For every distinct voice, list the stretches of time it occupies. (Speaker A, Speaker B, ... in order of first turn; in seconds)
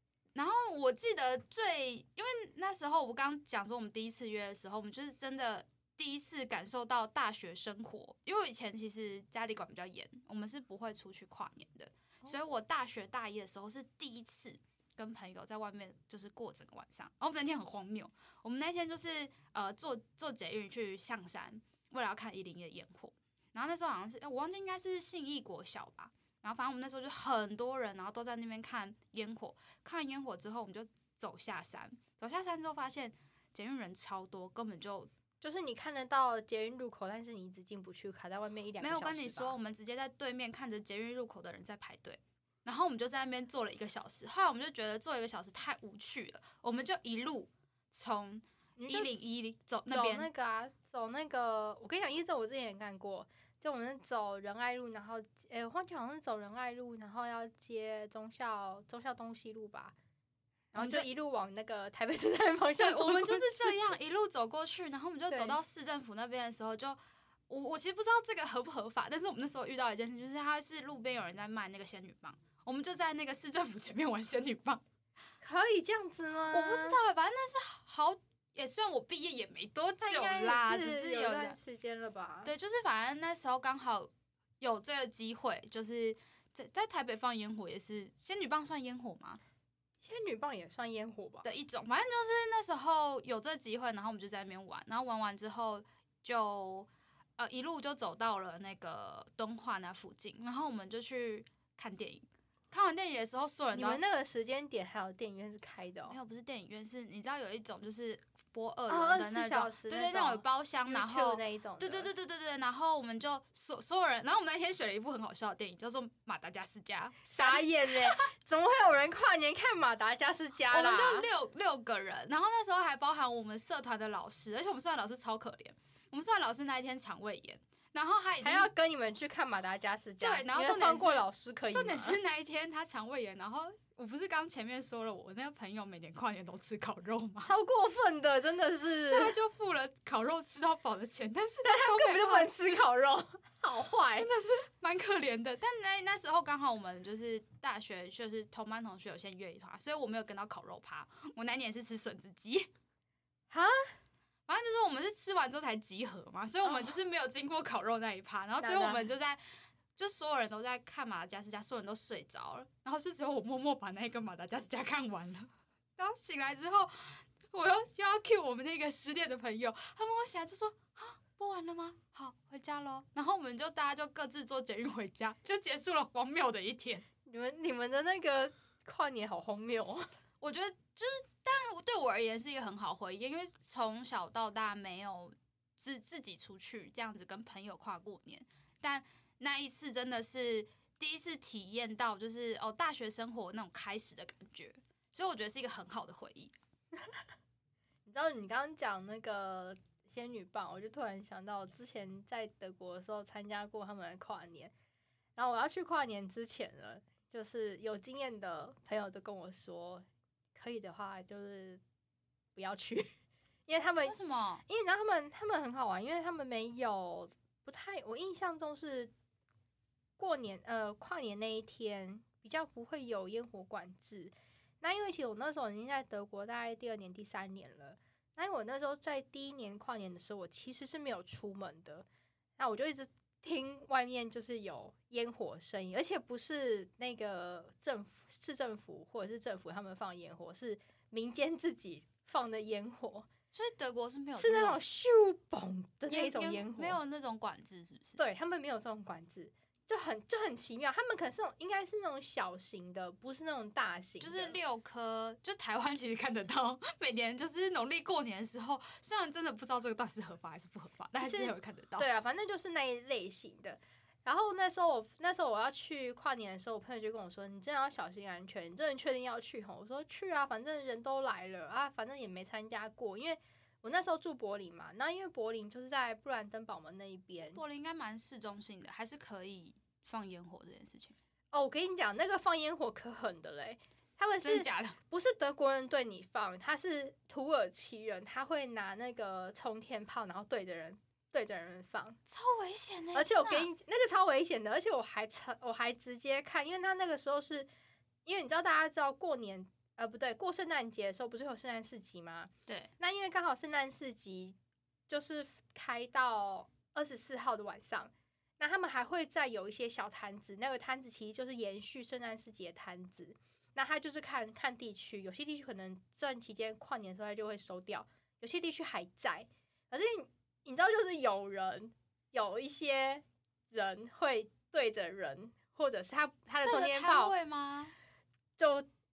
Speaker A: 0.4-35.1, 38.8-50.3, 60.8-61.1, 62.8-67.0, 67.5-74.8, 76.5-81.6, 82.4-89.4, 91.4-104.0, 106.1-118.3, 120.7-128.7, 130.2-137.5, 139.1-142.8, 144.1-152.7, 154.5-159.4, 160.0-177.1, 180.4-196.5, 214.0-214.6, 243.5-244.8, 246.1-248.2, 254.2-262.1, 277.5-281.1, 284.4-285.0, 292.3-293.7, 326.6-327.9
Speaker B: 35.4-39.6, 48.8-49.1, 49.9-59.9, 60.7-63.9, 65.3-65.6, 75.4-77.0, 80.0-82.5, 90.0-91.5, 103.7-106.2, 108.9-112.1, 117.3-121.3, 128.4-132.2, 137.4-139.3, 141.6-144.3, 153.5-153.9, 156.7-157.0, 158.6-159.1, 177.2-180.1, 198.1-204.7, 205.4-211.8, 212.6-213.1, 213.7-214.2, 214.7-219.1, 220.2-232.1, 232.6-243.3, 244.4-247.0, 248.2-254.6, 261.2-277.6, 281.5-292.2, 293.1-297.7, 298.2-304.6, 305.1-327.3, 328.6-328.9